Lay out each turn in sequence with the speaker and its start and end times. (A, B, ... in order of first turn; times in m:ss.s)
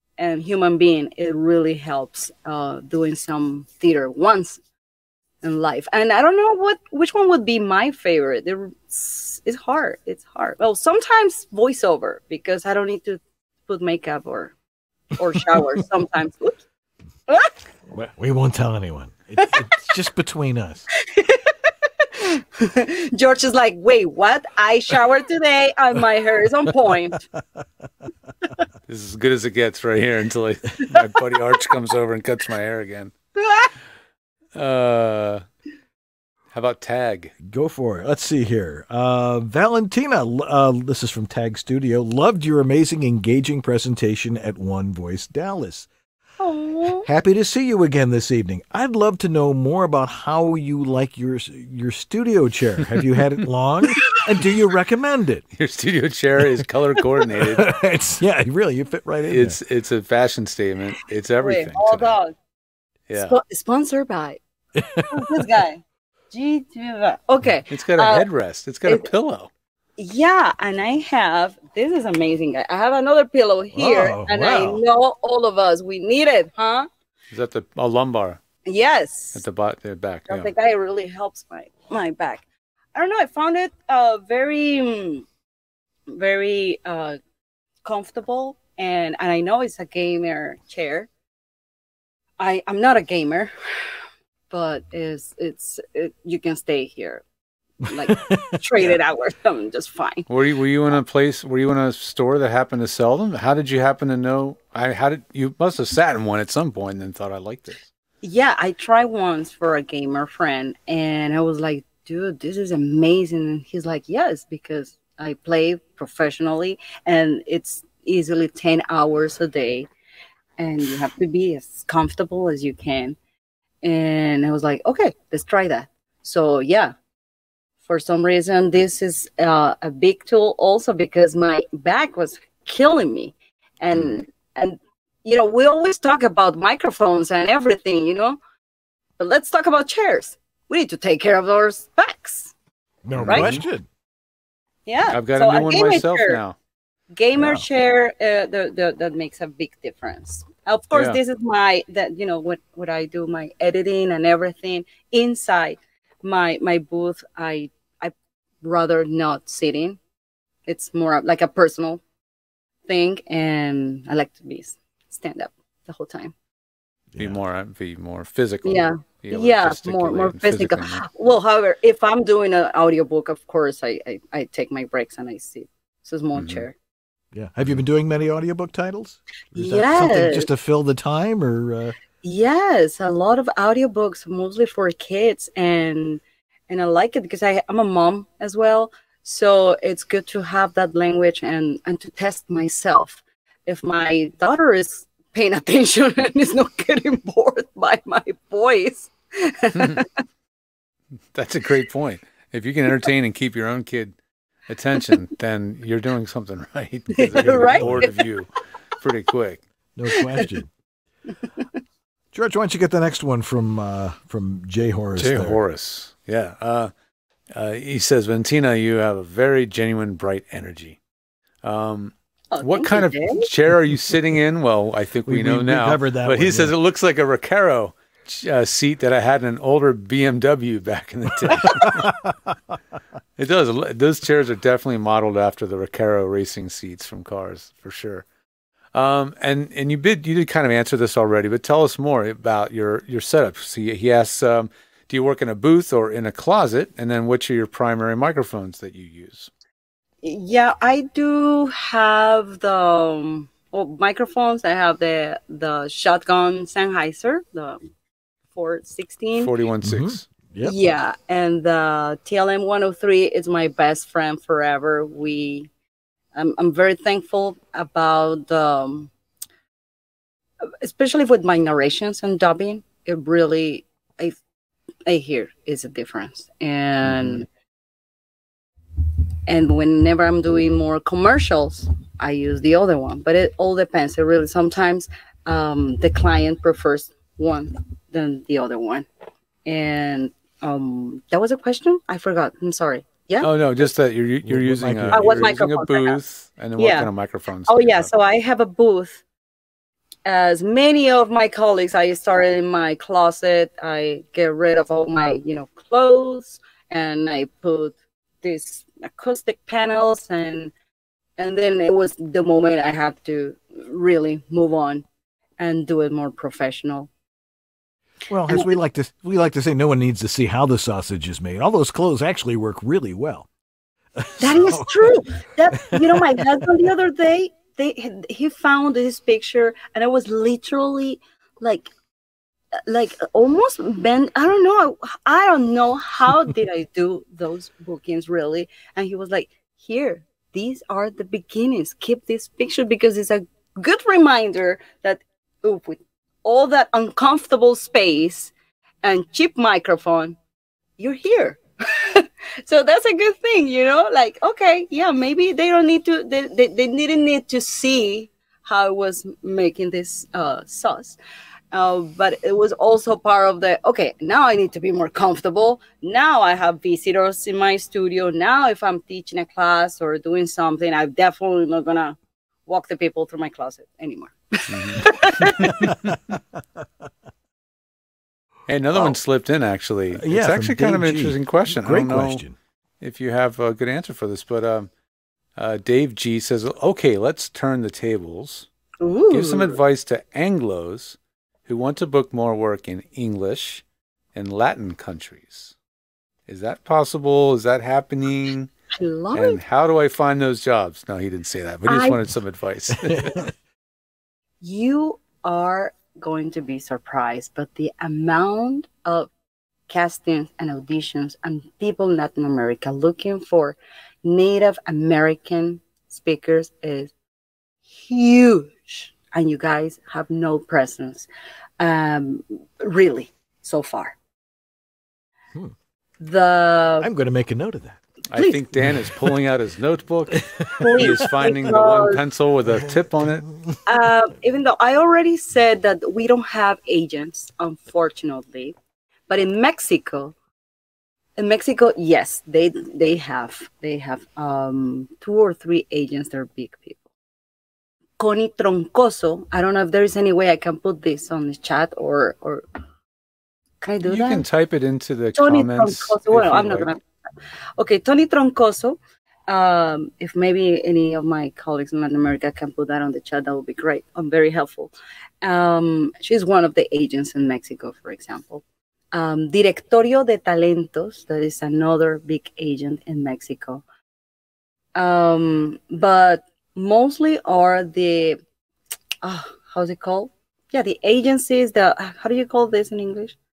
0:00.2-0:04.6 A
0:05.4-0:14.5 A
0:15.2-0:16.6 A
0:17.3-0:17.5 A
0:17.9-0:20.8 B
0:21.0-0:27.2 A
0:28.9-0:33.1 C
0:33.4-0:33.7 A
0:34.5-0:35.4 C
0:36.5-0:37.3 C
0:37.4-0:45.9 B
0:46.4-0:47.1 A
0:47.0-0:55.4 B
0:55.6-0:57.6 C
0:57.3-0:59.6 B
0:59.3-1:02.1 C
1:01.4-1:02.3 A
1:03.1-1:03.4 C
1:03.1-1:04.4 A
1:04.8-1:05.4 B
1:05.1-1:08.2 A
1:07.7-1:09.5 C
1:10.0-1:16.9 A
1:13.7-1:14.8 B
1:17.3-1:18.4 C
1:18.6-1:19.4 A
1:19.3-1:20.5 C
1:20.3-1:22.4 A
1:22.9-1:25.2 A
1:26.1-1:27.2 A
1:27.8-1:31.1 A
1:32.4-1:33.5 A
1:34.5-1:37.2 A
1:37.8-1:40.3 A
1:38.1-1:38.6 B
1:40.3-1:47.8 C
1:48.2-1:59.9 A
2:00.6-2:03.2 A
2:03.8-2:06.9 A
2:07.8-2:18.4 A
2:19.2-2:22.5 A
2:23.0-2:23.9 B
2:23.1-2:23.6 C
2:23.2-2:23.5 A
2:24.9-2:26.4 A
2:25.1-2:26.6 C
2:27.1-2:40.0 A
2:27.4-2:27.6 B
2:30.9-2:31.2 C
2:40.7-2:42.0 A
2:42.9-2:46.3 A
2:47.1-2:47.4 B
2:47.2-2:51.1 C
2:48.6-2:56.7 A
2:56.4-2:56.6 C
2:57.3-3:02.0 B
2:59.6-3:00.5 A
3:02.2-3:20.1 A
3:19.8-3:20.0 C
3:21.3-3:24.2 C
3:24.7-3:29.6 C
3:27.1-3:28.3 A
3:30.0-3:30.7 B
3:30.2-3:30.4 A
3:32.3-3:35.6 B
3:35.2-3:36.9 C
3:37.5-3:41.0 C
3:41.6-3:52.1 C
3:42.5-3:43.5 A
3:45.2-3:46.7 B
3:51.4-3:52.5 B
3:53.4-3:58.2 C
3:58.9-4:09.5 C
4:10.2-4:17.8 A
4:18.5-4:19.5 A
4:19.4-4:20.3 C
4:19.8-4:20.8 B
4:20.6-4:25.7 A
4:26.4-4:29.1 A
4:30.8-4:34.4 A
4:35.1-4:37.4 A
4:39.5-4:49.0 A
4:49.6-4:53.5 A
4:53.4-4:58.1 C
4:54.4-4:55.6 B
4:55.1-4:56.2 A
4:56.8-4:57.1 A
4:57.7-4:59.2 A
5:00.2-5:10.7 A
5:11.4-5:15.0 A
5:15.6-5:17.1 A
5:18.3-5:23.5 B
5:24.2-5:25.2 B
5:24.4-5:31.9 A
5:25.8-5:26.6 B
5:32.9-5:50.4 A
5:51.0-6:01.2 A
6:01.7-6:12.2 A
6:12.7-6:15.9 A
6:14.7-6:15.9 C
6:15.6-6:16.8 B
6:18.7-6:22.4 C
6:20.1-6:22.6 B
6:23.0-6:24.9 C
6:25.6-6:28.7 C
6:29.0-6:29.8 A
6:29.3-6:33.8 C
6:34.3-6:35.7 C
6:36.5-6:38.7 C
6:38.9-6:39.6 A
6:39.3-6:43.5 C
6:41.9-6:42.2 A
6:43.1-6:43.5 B
6:44.6-6:49.3 A
6:49.9-6:57.1 A
6:57.9-7:01.3 A
7:01.8-7:04.1 A
7:06.2-7:07.1 A
7:07.0-7:08.0 B
7:08.3-7:13.4 C
7:08.4-7:08.6 A
7:08.8-7:09.3 B
7:10.6-7:11.1 B
7:10.8-7:12.2 A
7:12.6-7:13.8 B
7:13.8-7:18.7 A
7:19.3-7:20.3 A
7:21.4-7:27.0 A
7:28.2-7:32.6 A
7:33.8-7:34.4 A
7:34.0-7:36.9 C
7:35.3-7:37.0 A
7:37.8-7:53.8 A
7:55.0-7:58.4 A
7:59.2-8:03.4 A